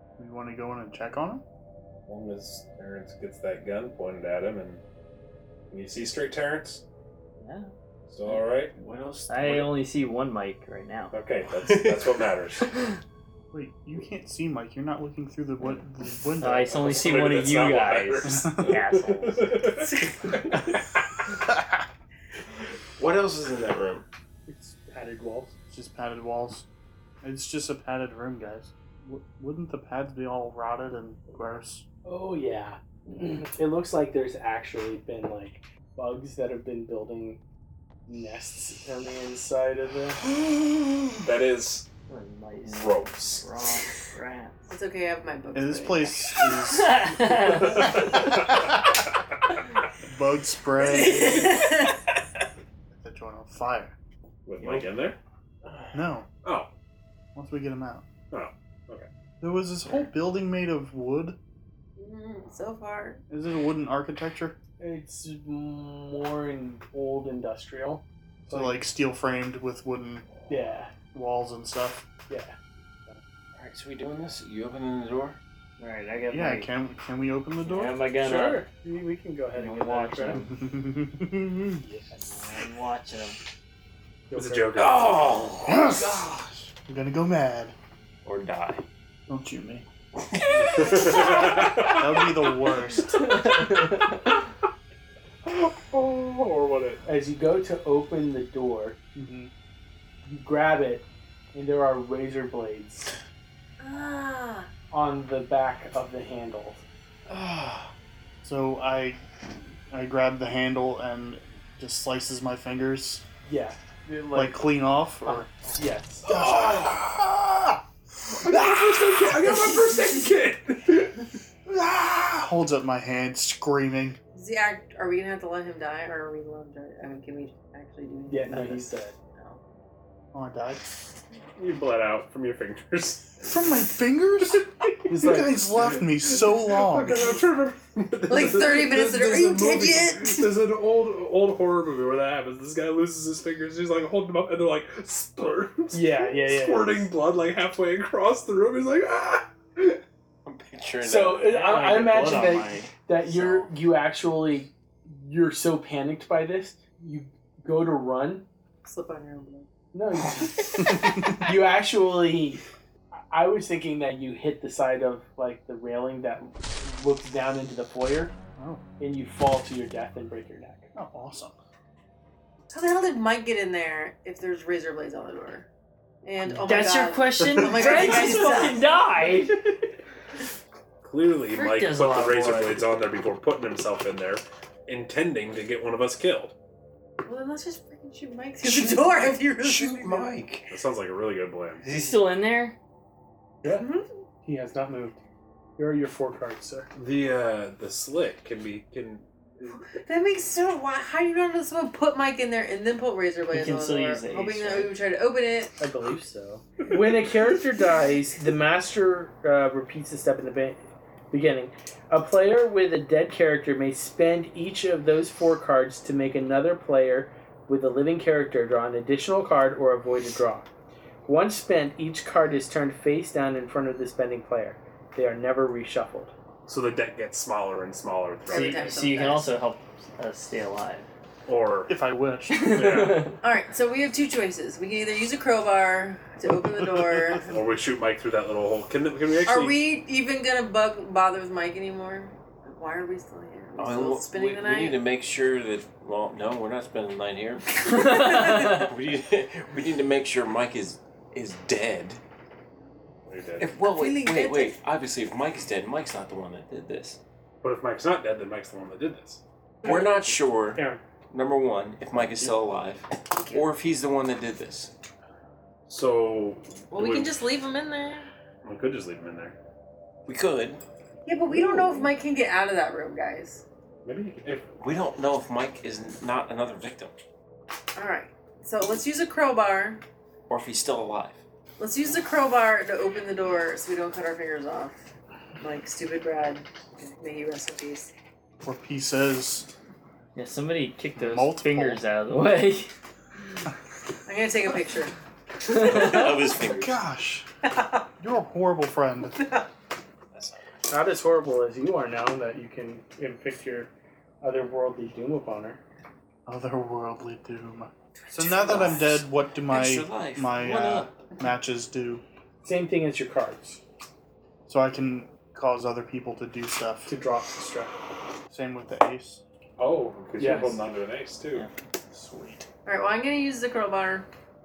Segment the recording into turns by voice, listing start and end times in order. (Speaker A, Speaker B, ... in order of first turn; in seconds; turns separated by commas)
Speaker A: 0.2-1.4, Speaker B: 2.0-4.8, Speaker B: 5.7-6.8, Speaker C: 7.4-7.7, Speaker B: 8.1-8.7, Speaker D: 8.2-9.8, Speaker C: 9.3-11.1, Speaker B: 11.1-12.7, Speaker D: 11.6-12.2, Speaker A: 13.5-17.3, Speaker C: 16.4-19.7, Speaker B: 16.7-20.9, Speaker E: 19.8-20.6, Speaker D: 23.0-24.0, Speaker F: 24.5-25.5, Speaker A: 25.7-26.7, Speaker A: 27.2-31.8, Speaker F: 32.0-37.4, Speaker F: 38.1-40.2, Speaker B: 41.2-41.9, Speaker C: 42.1-44.7, Speaker B: 42.6-43.4, Speaker E: 44.7-46.4, Speaker A: 45.5-48.1, Speaker C: 46.6-48.1, Speaker B: 47.8-48.6, Speaker A: 50.0-51.6, Speaker E: 50.8-52.0, Speaker A: 52.9-53.9, Speaker B: 54.5-55.2, Speaker D: 54.6-54.9, Speaker D: 55.6-55.9, Speaker A: 55.9-56.3, Speaker B: 56.4-56.7, Speaker A: 57.3-58.0, Speaker B: 58.3-59.1, Speaker A: 59.4-61.4, Speaker E: 62.0-63.2, Speaker A: 63.3-64.6, Speaker F: 64.8-68.8, Speaker A: 68.5-70.3, Speaker F: 70.5-70.9, Speaker A: 71.1-72.1, Speaker F: 72.3-73.2, Speaker D: 73.5-75.4, Speaker C: 75.8-76.7, Speaker A: 76.3-78.0, Speaker C: 77.6-78.6, Speaker F: 78.2-80.4, Speaker C: 79.5-80.5, Speaker A: 80.4-81.8, Speaker F: 81.8-82.1, Speaker C: 82.1-83.4, Speaker F: 84.3-84.9, Speaker B: 84.3-85.3, Speaker D: 84.7-85.9, Speaker A: 85.6-87.7, Speaker C: 88.2-88.8, Speaker A: 89.3-89.9, Speaker B: 90.7-92.3, Speaker D: 90.7-91.1, Speaker A: 90.9-93.4, Speaker C: 93.1-94.2, Speaker B: 95.4-97.0, Speaker F: 97.0-99.0, Speaker A: 99.1-99.5, Speaker F: 100.2-103.1, Speaker E: 103.8-104.7, Speaker F: 104.9-106.8, Speaker D: 107.3-107.9, Speaker A: 108.4-109.2, Speaker A: 109.9-113.2, Speaker F: 113.4-116.2, Speaker A: 114.3-115.5, Speaker B: 116.2-117.1, Speaker A: 116.3-117.8, Speaker B: 118.3-121.2, Speaker A: 121.7-124.2, Speaker E: 124.3-129.6, Speaker F: 128.3-129.2, Speaker A: 130.3-130.8, Speaker B: 131.6-133.4, Speaker A: 133.4-137.4, Speaker F: 135.1-135.6, Speaker B: 136.2-150.0, Speaker E: 138.3-140.6, Speaker F: 145.9-147.1, Speaker D: 150.4-152.3, Speaker F: 151.0-158.4, Speaker C: 151.6-152.9, Speaker E: 158.8-159.7, Speaker F: 159.9-162.6, Speaker F: 163.3-168.3, Speaker A: 168.6-168.8, Speaker F: 169.0-170.9, Speaker A: 170.9-171.6, Speaker E: 172.7-175.7, Speaker E: 176.2-178.8, Speaker C: 176.6-179.8, Speaker B: 181.0-186.5, Speaker C: 181.5-182.9, Speaker E: 187.2-190.4, Speaker D: 188.6-190.7, Speaker B: 190.7-191.8, Speaker C: 191.8-192.8, Speaker E: 193.7-194.1, Speaker F: 194.4-195.2, Speaker F: 195.8-196.9, Speaker B: 196.9-199.9, Speaker E: 199.7-205.8, Speaker C: 203.5-204.9, Speaker F: 205.8-220.7, Speaker F: 221.2-226.3, Speaker B: 226.7-228.9, Speaker E: 228.5-229.5, Speaker C: 228.5-231.1, Speaker B: 231.5-231.9, Speaker A: 231.9-232.8, Speaker C: 232.5-233.4, Speaker B: 232.6-233.4, Speaker E: 233.4-237.5, Speaker B: 237.4-239.8, Speaker E: 239.4-245.0, Speaker D: 243.8-252.2, Speaker E: 247.8-248.8, Speaker C: 247.9-248.8, Speaker B: 253.2-253.7, Speaker D: 253.6-257.2, Speaker E: 253.8-254.8, Speaker B: 257.6-259.4, Speaker D: 259.8-264.9, Speaker F: 259.8-261.0, Speaker E: 263.3-263.7, Speaker B: 265.9-267.3, Speaker E: 266.9-268.3, Speaker B: 268.6-269.6, Speaker D: 270.2-270.8, Speaker E: 271.2-273.6, Speaker F: 271.5-272.1, Speaker B: 274.0-274.7, Speaker D: 274.8-277.1, Speaker E: 277.9-280.0, Speaker D: 280.5-281.4, Speaker E: 281.8-285.0, Speaker E: 285.6-288.1, Speaker A: 288.6-289.7, Speaker C: 290.3-292.9, Speaker A: 291.2-292.0, Speaker E: 294.2-295.1, Speaker C: 295.7-296.5, Speaker D: 295.7-297.0, Speaker A: 296.6-297.5, Speaker E: 297.6-298.1, Speaker A: 298.2-299.4, Speaker E: 299.3-299.7, Speaker D: 300.3-300.6, Speaker F: 300.9-303.9, Speaker F: 304.4-305.8, Speaker A: 306.4-312.2, Speaker E: 308.2-309.1, Speaker D: 308.6-311.1, Speaker F: 312.6-313.8, Speaker A: 314.7-317.1, Speaker F: 317.1-317.9, Speaker A: 318.5-319.4, Speaker B: 319.8-321.7, Speaker F: 320.4-320.8, Speaker A: 322.1-322.6, Speaker E: 322.8-324.3